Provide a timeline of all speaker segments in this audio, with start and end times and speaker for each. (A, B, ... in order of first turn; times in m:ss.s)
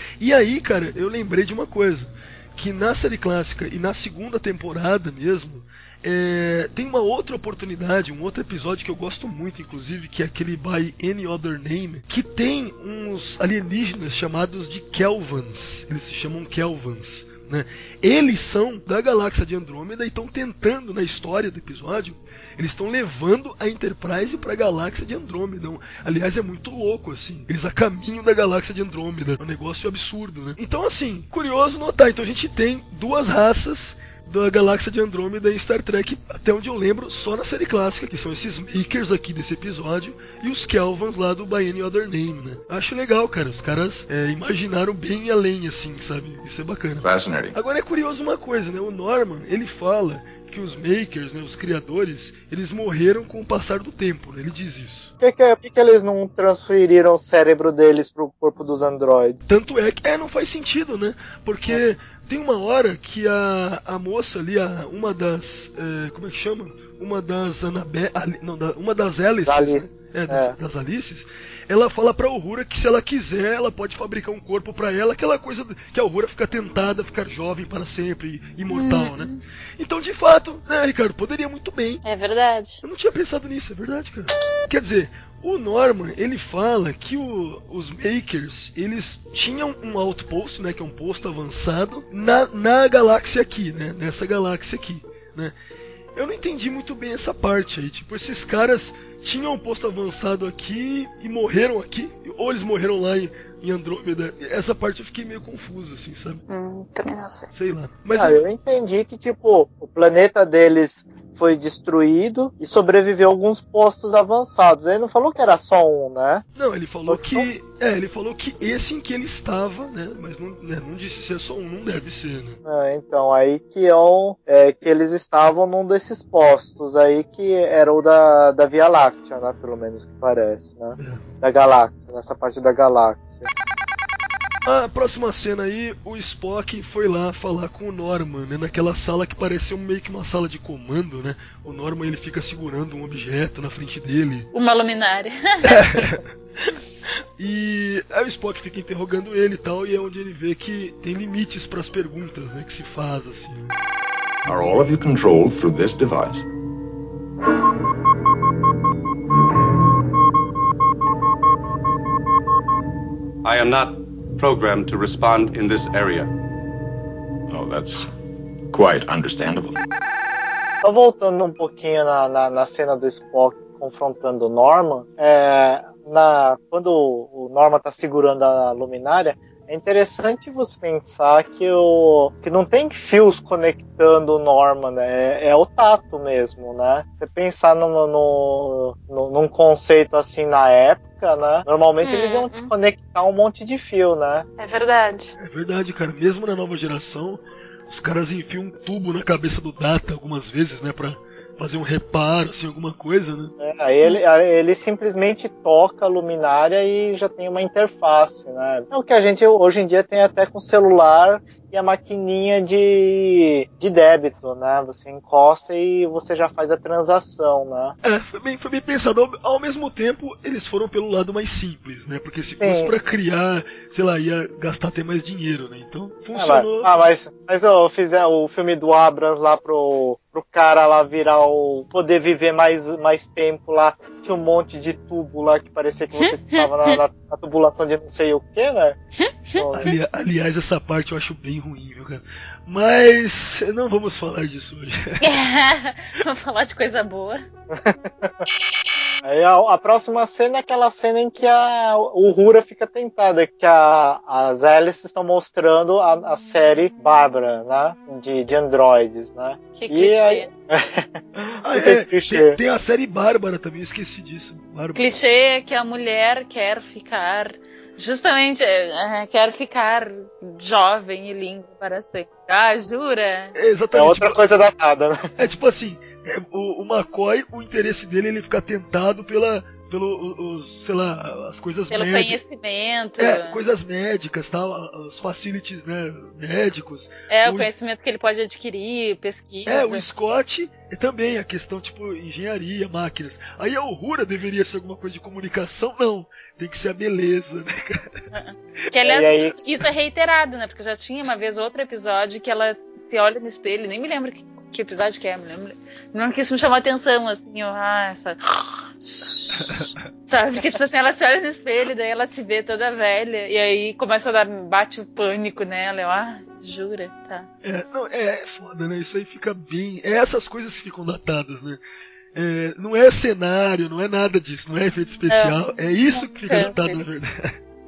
0:00.2-0:55.1 A
0:47.0-0:47.5 B
0:55.2-0:59.4 C
0:59.5-1:22.0 A
1:09.4-1:10.5 C
1:18.7-1:19.4 D
1:22.0-1:22.8 D
1:22.8-1:35.5 A
1:36.1-1:46.4 A
1:46.5-1:47.5 D
1:47.5-1:48.4 A
1:48.2-1:56.4 C
1:56.6-2:02.6 A
1:57.0-1:57.5 C
2:02.6-2:13.5 C
2:11.0-2:11.2 A
2:14.6-2:24.5 A
2:24.5-2:25.8 D
2:25.7-2:26.7 A
2:27.4-2:33.8 A
2:34.4-2:36.4 B
2:43.4-2:46.3 E
2:47.5-2:48.1 B
2:48.7-2:49.8 B
2:50.8-3:14.5 C
3:12.0-3:12.7 D
3:14.6-3:15.3 D
3:15.4-3:23.5 A
3:23.6-3:38.0 C
3:38.0-3:46.9 A
3:42.6-3:42.9 C
3:46.3-3:59.0 C
3:59.2-3:59.6 D
3:59.6-4:00.0 C
3:59.7-4:05.2 A
4:05.2-4:07.4 D
4:07.7-4:08.3 C
4:09.2-4:22.6 C
4:19.7-4:20.5 D
4:21.4-4:25.0 A
4:24.9-4:33.5 D
4:33.5-4:34.4 A
4:33.9-4:35.3 C
4:35.4-4:42.4 A
4:41.9-4:43.6 D
4:43.2-4:47.7 A
4:47.3-4:50.0 D
4:49.6-4:58.1 A
4:58.3-5:17.5 D
4:59.0-4:59.6 C
5:17.6-5:21.8 A
5:22.3-5:27.5 A
5:25.3-5:27.0 D